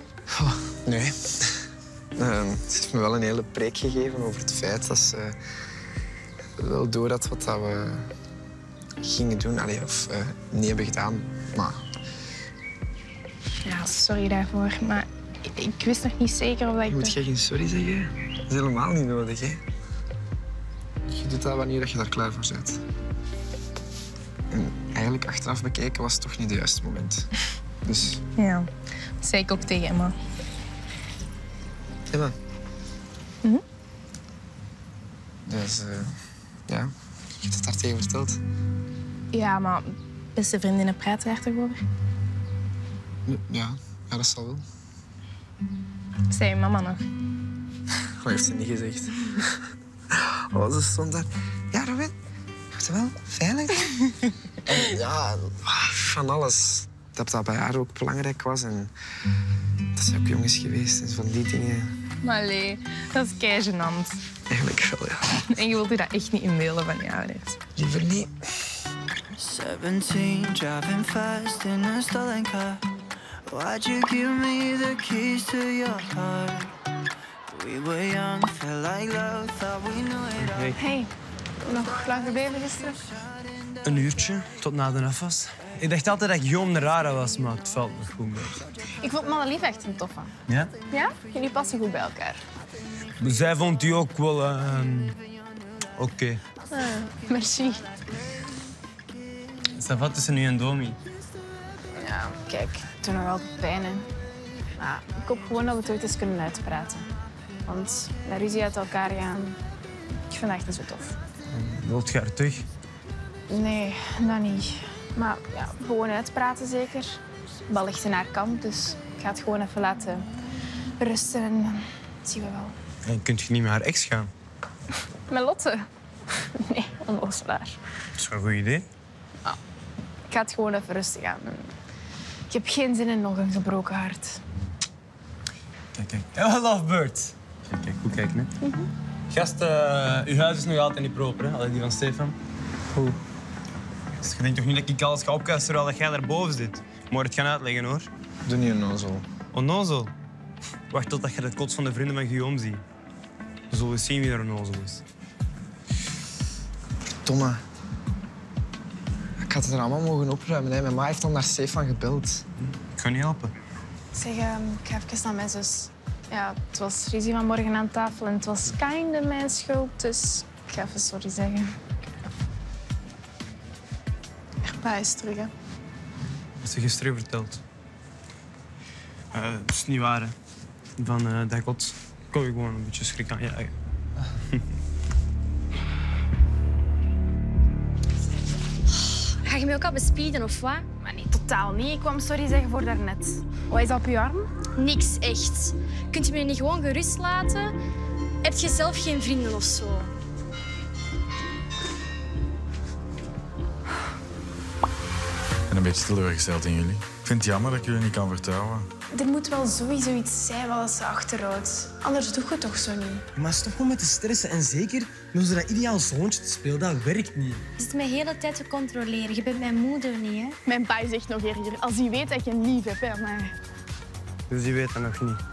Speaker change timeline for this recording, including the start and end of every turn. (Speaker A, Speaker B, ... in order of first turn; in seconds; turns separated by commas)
Speaker A: 0.3-1.3, Speaker A: 2.2-5.3, Speaker A: 6.6-8.1, Speaker A: 9.0-11.8, Speaker B: 13.7-17.2, Speaker A: 16.9-19.6, Speaker A: 21.1-22.8, Speaker A: 24.5-27.3, Speaker A: 27.9-28.2, Speaker B: 28.4-28.7, Speaker B: 29.2-30.1, Speaker A: 32.1-32.4, Speaker A: 35.5-36.1, Speaker A: 36.7-38.4, Speaker B: 39.3-41.8, Speaker A: 43.3-44.6, Speaker B: 46.3-47.0, Speaker A: 48.2-49.5, Speaker A: 50.1-52.1, Speaker A: 52.8-53.9, Speaker A: 54.7-58.9, Speaker A: 60.0-61.9, Speaker B: 62.2-64.2, Speaker A: 64.5-65.3, Speaker B: 65.5-67.6, Speaker A: 67.8-68.3, Speaker C: 69.4-72.8, Speaker C: 73.5-76.7, Speaker C: 77.5-80.4, Speaker D: 80.4-80.8, Speaker E: 80.8-81.1, Speaker E: 81.7-83.0, Speaker D: 83.8-88.7, Speaker E: 89.0-90.3, Speaker D: 90.5-90.7, Speaker E: 90.9-92.4, Speaker D: 93.2-95.2, Speaker D: 96.0-96.4, Speaker E: 96.8-97.8, Speaker D: 99.8-101.0, Speaker E: 102.0-104.1, Speaker E: 104.8-107.1, Speaker E: 107.7-109.6, Speaker E: 110.3-111.2, Speaker D: 111.5-112.7, Speaker E: 113.5-117.2, Speaker E: 117.7-120.3, Speaker E: 121.0-122.8, Speaker D: 123.0-124.3, Speaker E: 125.3-125.8, Speaker E: 126.6-127.8, Speaker D: 128.2-128.9, Speaker E: 130.3-131.7, Speaker E: 132.5-134.4, Speaker D: 135.9-138.5, Speaker D: 139.3-142.4, Speaker D: 144.2-148.1, Speaker A: 148.5-149.2, Speaker D: 149.5-150.1, Speaker D: 150.9-152.8, Speaker D: 153.7-155.0, Speaker A: 157.2-157.6, Speaker A: 159.4-162.4, Speaker D: 162.7-163.5, Speaker E: 164.2-171.7, Speaker B: 174.8-175.5, Speaker E: 174.8-175.5, Speaker D: 176.6-177.6, Speaker D: 179.3-180.3, Speaker D: 181.0-183.8, Speaker F: 189.2-190.8, Speaker E: 191.0-194.5, Speaker F: 194.8-197.7, Speaker F: 198.4-200.1, Speaker G: 205.7-208.9, Speaker E: 209.1-213.2, Speaker H: 213.4-217.6, Speaker F: 217.8-220.6, Speaker E: 220.7-223.5, Speaker D: 224.5-225.4